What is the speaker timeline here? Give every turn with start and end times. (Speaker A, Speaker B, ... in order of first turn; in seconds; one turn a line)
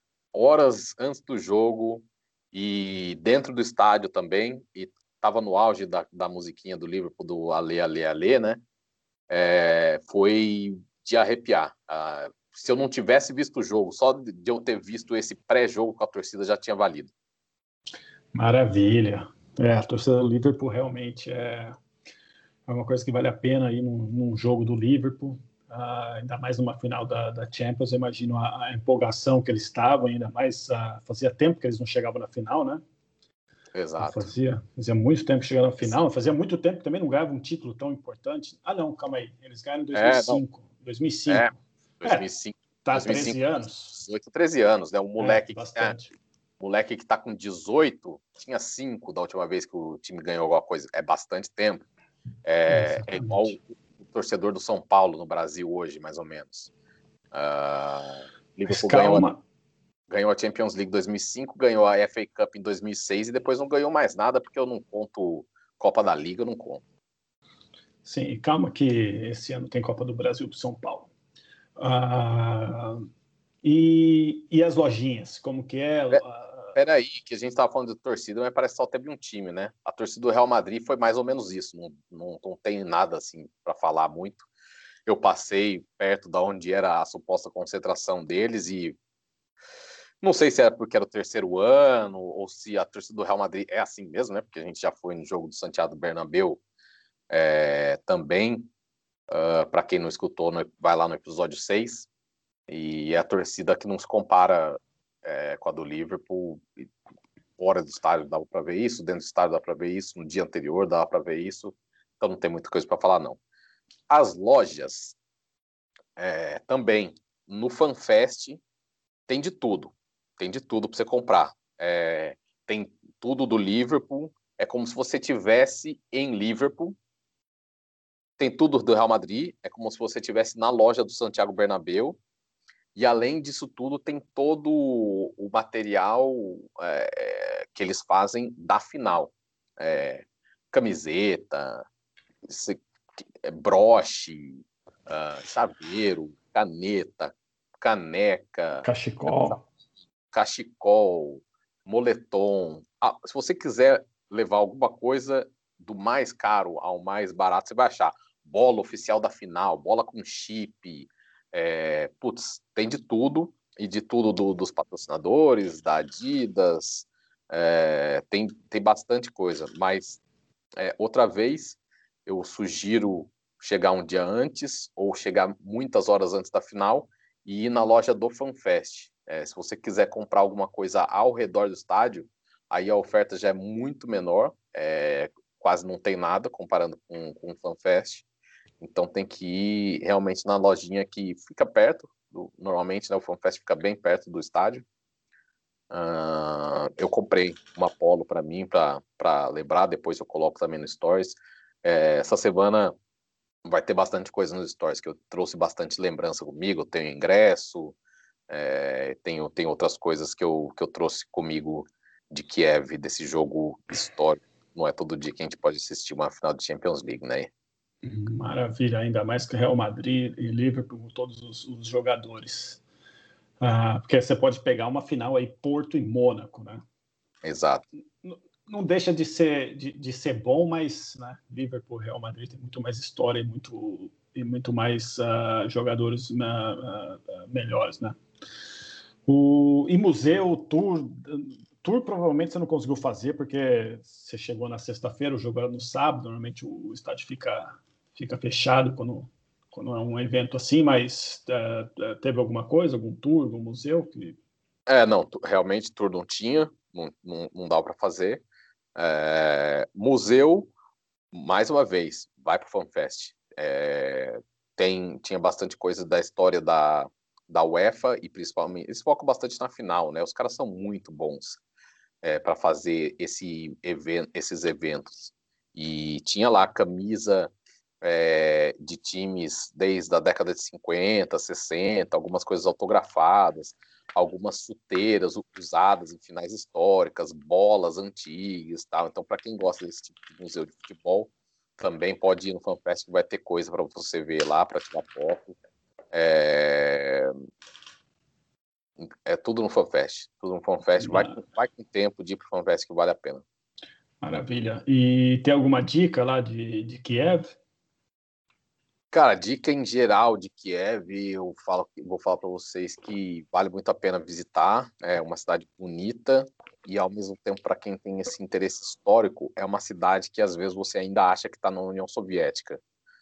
Speaker A: 0.3-8.6
Speaker A: 9.3-17.1
Speaker B: 18.3-21.8
Speaker B: 22.7-32.8
Speaker A: 33.7-34.3
Speaker B: 34.0-42.2
Speaker A: 39.9-40.4
Speaker A: 41.3-46.0
Speaker B: 42.8-44.0
Speaker B: 45.2-46.1
Speaker A: 46.6-51.9
Speaker A: 52.4-56.7
Speaker B: 52.7-53.5
Speaker A: 57.3-59.3
Speaker B: 58.7-59.4
Speaker A: 60.1-66.8
Speaker B: 68.0-71.1
Speaker B: 71.8-73.1
Speaker B: 73.6-76.8
Speaker A: 76.8-84.5
Speaker A: 85.1-89.0
Speaker A: 90.2-96.6
Speaker A: 97.3-98.7
Speaker A: 99.3-102.1
Speaker A: 102.7-106.9
Speaker A: 107.6-113.4
Speaker A: 114.1-115.2
Speaker A: 116.2-118.6
Speaker A: 119.3-127.0
Speaker A: 128.4-132.2
Speaker A: 132.9-141.8
Speaker A: 142.5-142.8
Speaker A: 143.4-148.8
Speaker B: 148.8-149.6
Speaker A: 150.3-170.2
Speaker A: 170.8-188.2
Speaker A: 188.8-194.8
Speaker A: 195.9-202.9
Speaker A: 203.7-208.0
Speaker A: 208.5-217.5
Speaker B: 218.0-222.8
Speaker B: 223.6-226.8
Speaker A: 227.4-227.8
Speaker B: 228.2-238.2
Speaker B: 239.3-254.4
Speaker A: 254.9-258.4
Speaker A: 259.0-260.7
Speaker A: 261.3-271.6
Speaker A: 272.2-277.5
Speaker A: 278.0-295.6
Speaker A: 296.1-297.3
Speaker A: 299.0-303.4
Speaker B: 301.0-301.4
Speaker B: 304.2-307.6
Speaker A: 309.1-322.8